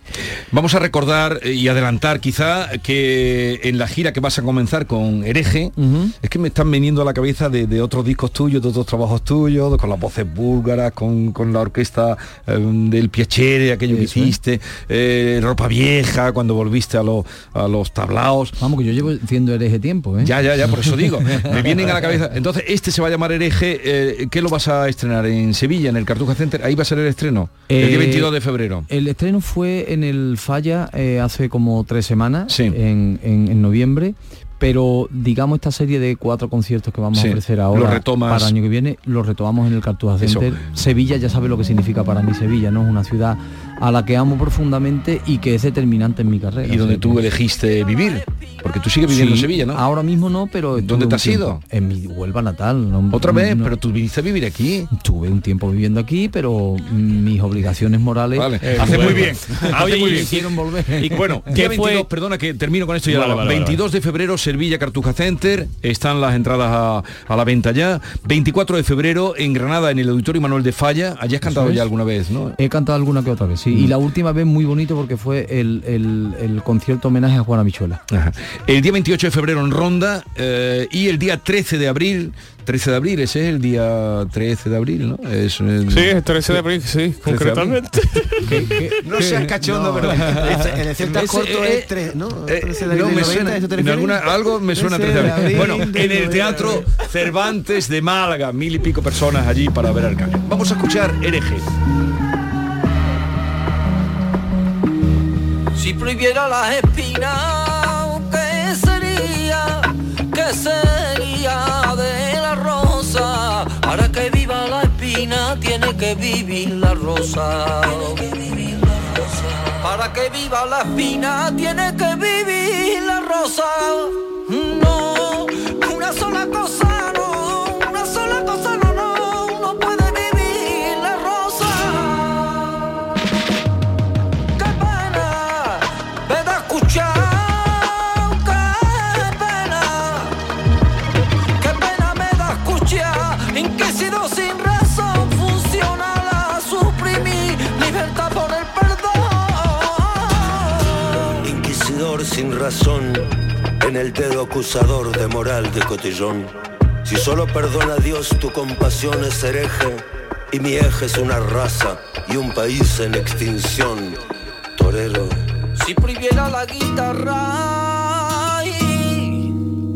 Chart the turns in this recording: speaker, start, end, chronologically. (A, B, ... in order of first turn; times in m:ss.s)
0:00.5-0:18.6 A
0:05.8-0:06.1 B
0:13.9-0:14.4 B
0:18.6-0:20.3 B
0:20.2-0:28.8 A
0:21.2-0:22.0 B
0:27.7-0:28.3 B
0:28.9-0:47.2 B
0:32.5-0:32.8 A
0:37.1-0:38.5 A
0:40.2-0:40.6 A
0:46.6-0:49.8 A
0:49.1-0:53.7 B
0:50.7-0:51.6 A
0:53.1-0:54.9 A
0:54.9-0:59.0 B
0:58.4-1:12.6 A
0:58.6-1:00.4 C
1:00.0-1:01.2 B
1:01.5-1:02.1 C
1:03.1-1:03.8 C
1:11.4-1:11.8 B
1:12.6-1:18.0 B
1:18.1-1:26.6 A
1:25.9-1:28.4 C
1:27.2-1:27.8 A
1:28.4-1:29.5 B
1:29.0-1:31.9 A
1:29.2-1:36.9 D
1:32.4-1:41.6 A
1:45.7-2:12.9 E
2:14.6-2:20.3 E
2:21.6-2:31.3 E
2:31.4-2:36.5 F
2:37.0-2:44.2 F
2:44.8-2:45.4 F
2:45.8-2:49.6 E